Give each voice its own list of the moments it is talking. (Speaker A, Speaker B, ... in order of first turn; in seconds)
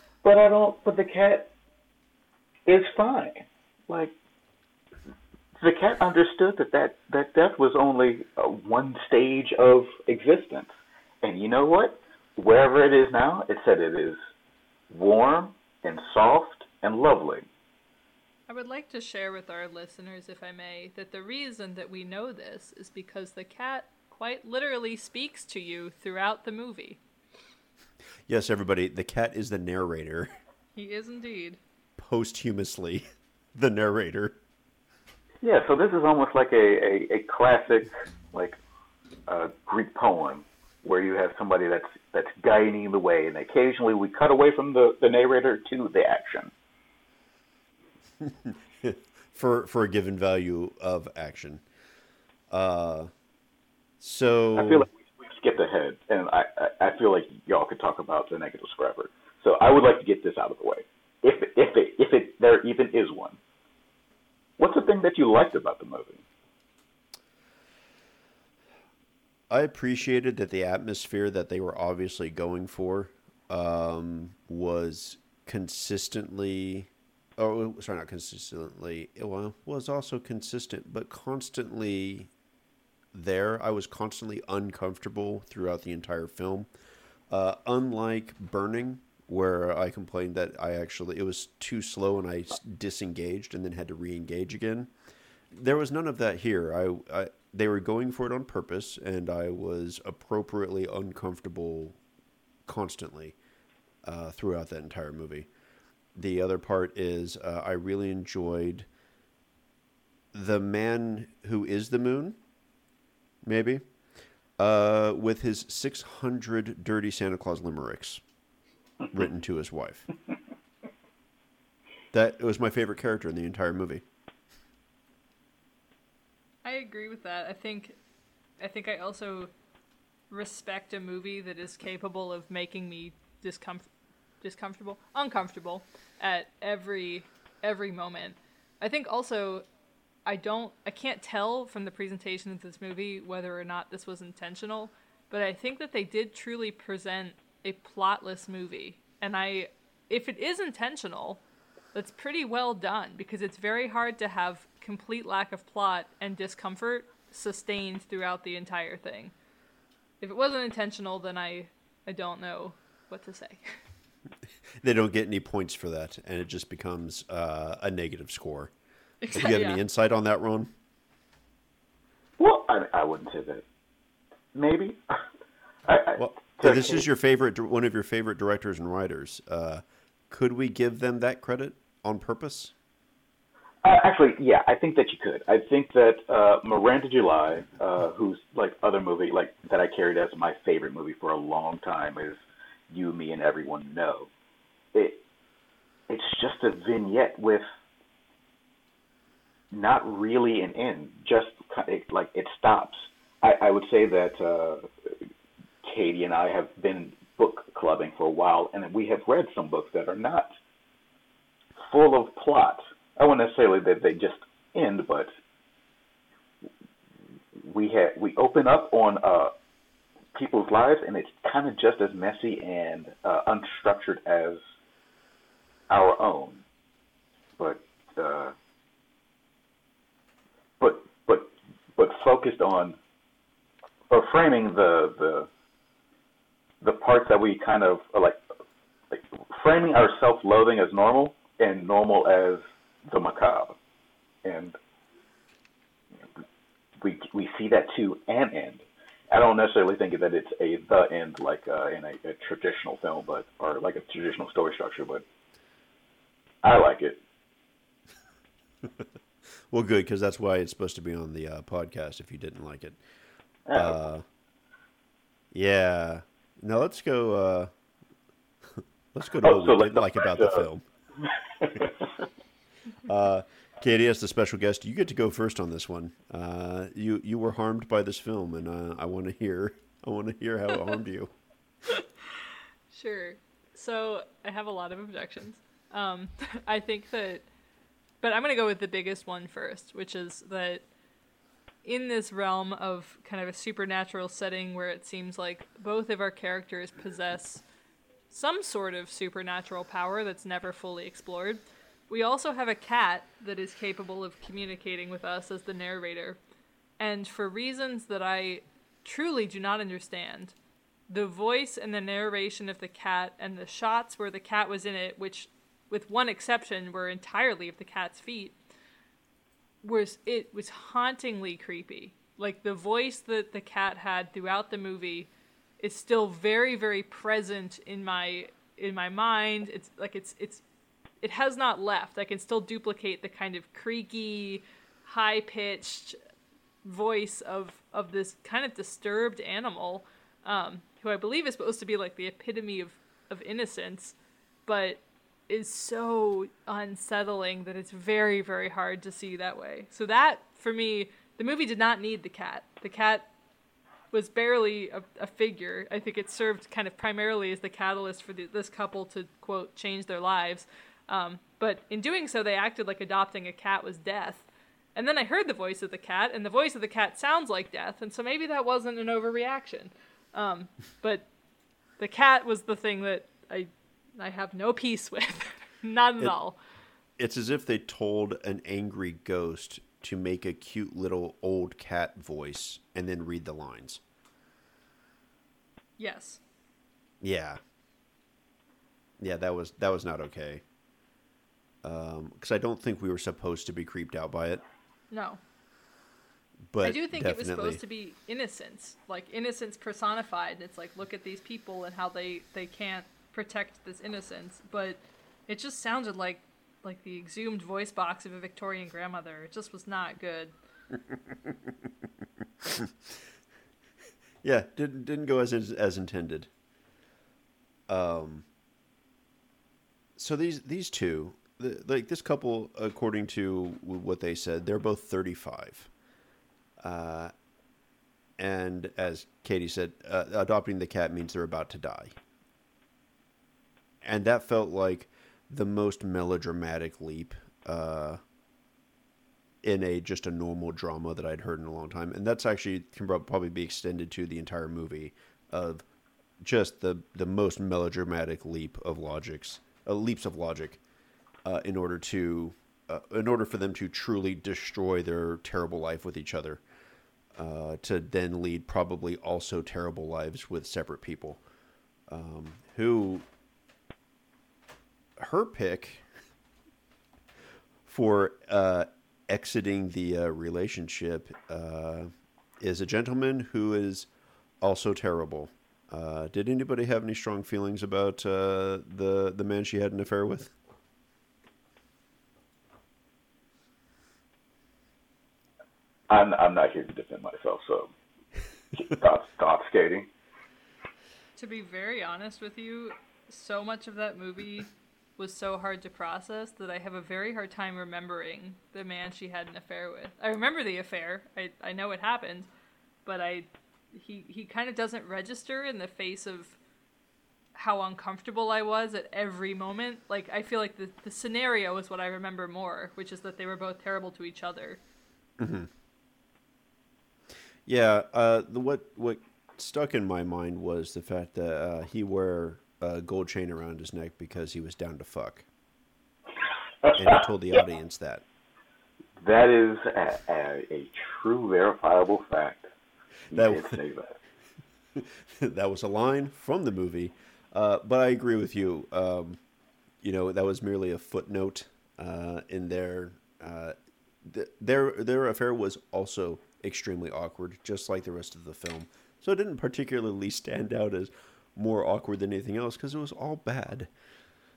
Speaker A: 0.2-1.5, 2.7-4.1, 5.6-10.7, 11.2-14.2, 14.9-17.4, 35.4-38.6, 39.3-46.5, 54.5-63.4, 64.6-66.2, 172.4-173.6, 174.5-175.2, 175.9-177.1, 183.8-194.3, 194.9-195.2, 196.1-197.6, 199.7-205.1, 205.8-210.5, 211.9-215.3, 217.6-219.5, 220.3-224.6, 225.9-226.6, 227.6-228.5, 230.8-233.0, 234.1-235.5, 236.8-238.4, 239.1-243.8, 244.4-244.8, 247.0-255.2, 256.6-257.2, 263.6-264.0, 269.4-270.7, 271.2-272.1, 486.1-487.9, 488.7-490.1, 526.8-527.2, 529.2-532.7, 533.3-534.2
Speaker B: 18.5-27.0, 30.7-31.6, 126.6-128.0, 128.6-129.5, 130.3-133.9, 134.4-139.6, 140.2-151.4, 151.9-159.3, 160.2-163.8, 169.2-169.8, 282.9-287.4, 288.2-290.8, 291.8-297.6, 298.3-306.4, 307.0-310.5, 311.1-318.6, 319.8-325.3, 325.8-330.6, 331.2-336.2, 336.8-353.3, 354.1-371.3, 372.0-376.6, 386.0-386.4, 395.1-395.4, 396.8-410.5, 491.4-502.5, 503.1-506.6, 507.5-514.8
Speaker C: 28.3-30.3, 32.0-34.4, 48.2-51.6, 52.5-53.1, 54.0-54.9, 69.5-82.3, 83.1-86.7, 87.3-94.9, 95.5-102.0, 102.7-103.3, 104.0-105.5, 106.1-108.9, 110.3-112.4, 113.4-113.8, 114.6-118.2, 119.1-120.1, 122.1-124.0, 164.8-168.7, 169.3-170.7, 176.2-182.7, 259.7-263.0, 263.7-264.2, 265.5-267.7, 268.8-270.8, 273.1-281.3, 377.2-384.0, 387.2-387.6, 389.2-390.6, 391.8-394.6, 396.7-397.8, 411.1-411.9, 412.6-413.2, 414.4-416.5, 417.9-418.4, 420.2-425.9, 426.8-427.3, 428.4-432.2, 434.0-438.2, 439.6-445.8, 446.4-450.8, 451.4-456.6, 457.3-461.4, 462.1-463.2, 465.2-466.0, 467.8-474.1, 474.6-480.5, 515.4-515.7, 517.6-525.5, 527.0-528.2, 533.3-533.8, 534.9-539.4, 540.0-553.9